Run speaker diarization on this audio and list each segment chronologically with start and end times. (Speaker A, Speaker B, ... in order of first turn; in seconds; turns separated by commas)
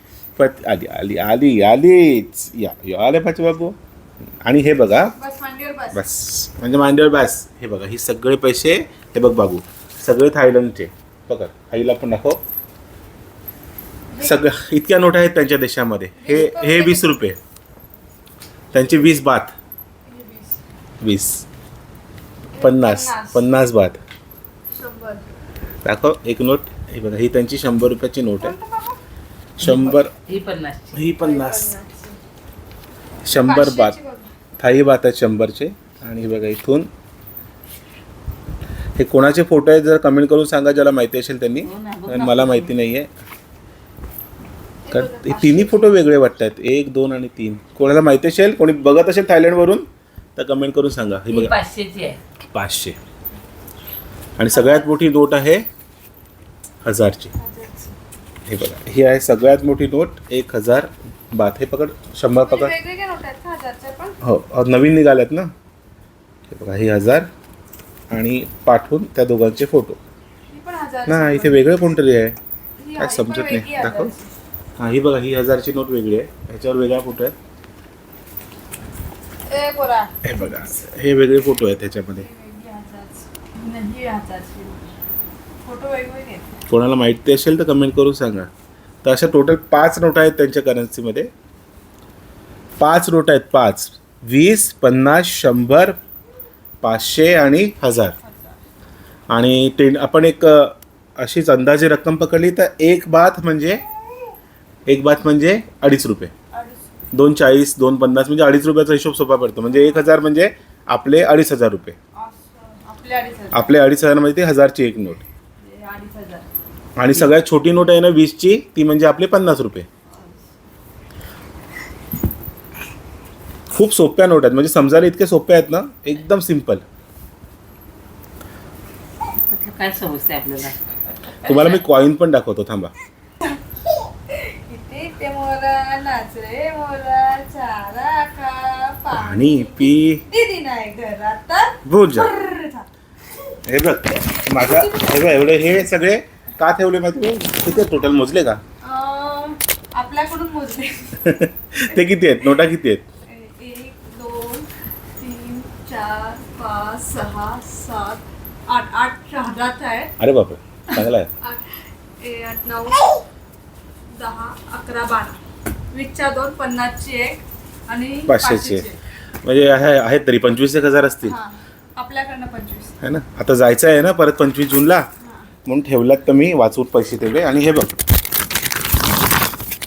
Speaker A: 0.3-3.8, Speaker A: 4.4-5.1, Speaker B: 5.1-6.0, Speaker A: 5.9-12.4, Speaker B: 14.1-14.4, Speaker A: 14.2-17.4, Speaker B: 16.2-17.1, Speaker A: 18.7-19.5, Speaker B: 20.1-20.6, Speaker A: 21.0-21.4, Speaker B: 22.5-23.4, Speaker A: 22.6-24.0, Speaker B: 24.7-25.2, Speaker A: 25.8-28.5, Speaker B: 28.4-29.0, Speaker A: 29.6-30.1, Speaker C: 29.6-31.0, Speaker A: 30.9-31.7, Speaker B: 31.1-32.2, Speaker A: 33.2-34.0, Speaker B: 33.3-34.3, Speaker A: 34.6-36.9, Speaker A: 39.0-43.1, Speaker C: 41.6-42.7, Speaker B: 44.8-45.8, Speaker A: 44.9-51.5, Speaker C: 51.3-52.2, Speaker A: 52.5-53.0, Speaker A: 54.4-55.6, Speaker A: 56.8-57.3, Speaker B: 57.4-58.0, Speaker A: 58.5-62.7, Speaker B: 62.4-64.2, Speaker A: 64.2-65.5, Speaker A: 66.5-67.3, Speaker A: 68.1-70.0, Speaker B: 70.5-71.6, Speaker A: 71.1-72.4, Speaker B: 72.8-74.3, Speaker A: 73.0-74.1, Speaker A: 74.8-77.3, Speaker B: 79.5-80.7, Speaker A: 80.2-82.3, Speaker B: 82.1-84.9, Speaker B: 85.6-86.5, Speaker A: 86.7-88.5, Speaker A: 89.0-91.3, Speaker A: 92.8-96.0, Speaker A: 96.8-98.2, Speaker B: 98.2-98.6, Speaker A: 99.3-103.8, Speaker A: 104.9-106.3, Speaker B: 106.5-106.8, Speaker A: 107.1-112.0, Speaker B: 109.7-110.1, Speaker B: 112.1-113.8, Speaker A: 113.5-115.2, Speaker B: 115.6-116.5, Speaker A: 117.0-119.9, Speaker B: 120.1-120.4, Speaker A: 123.7-126.8, Speaker C: 129.5-130.8, Speaker A: 131.4-132.9, Speaker C: 131.4-131.8, Speaker B: 134.3-142.9, Speaker A: 139.1-140.2, Speaker A: 141.8-142.3, Speaker A: 143.7-148.6, Speaker B: 144.3-145.7, Speaker B: 148.8-151.1, Speaker A: 151.2-153.0, Speaker B: 153.3-154.7, Speaker B: 155.2-160.1, Speaker A: 160.2-161.3, Speaker B: 160.9-163.2, Speaker B: 164.1-165.4, Speaker B: 165.9-168.9, Speaker A: 168.3-168.8, Speaker A: 169.4-171.4, Speaker B: 171.2-172.9, Speaker A: 173.0-175.1, Speaker B: 175.2-175.5, Speaker A: 175.7-177.9